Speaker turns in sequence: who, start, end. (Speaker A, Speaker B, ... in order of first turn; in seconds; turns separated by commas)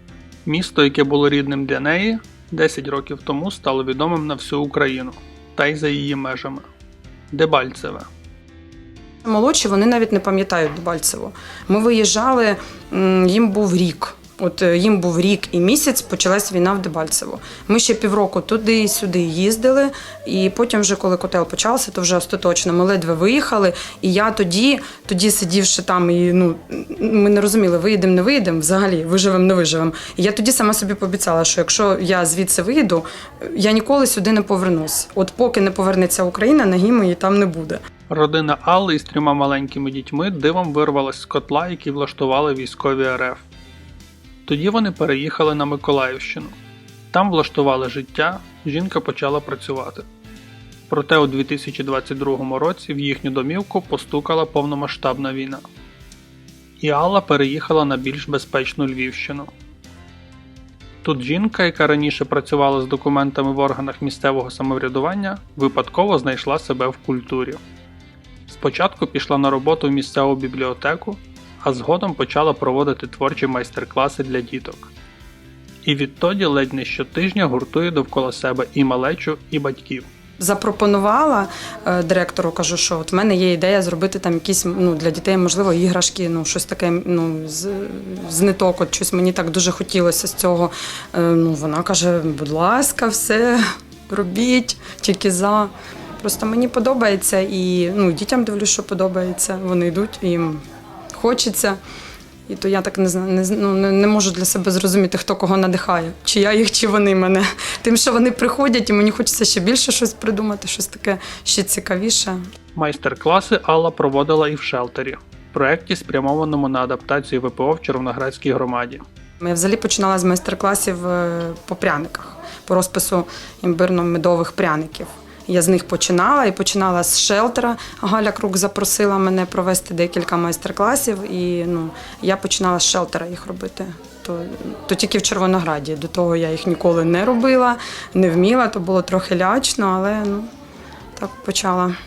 Speaker A: 0.4-6.7, Speaker A: 7.3-8.1, Speaker B: 9.2-37.8, Speaker A: 38.1-43.4, Speaker A: 44.5-46.5, Speaker A: 47.1-50.1, Speaker A: 50.9-55.6, Speaker A: 56.8-59.5, Speaker A: 61.0-67.6, Speaker A: 68.5-74.9, Speaker A: 75.8-80.1, Speaker B: 80.4-100.6, Speaker B: 101.1-101.8, Speaker B: 102.5-112.4, Speaker A: 112.7-119.0, Speaker B: 119.4-140.5, Speaker B: 141.2-141.9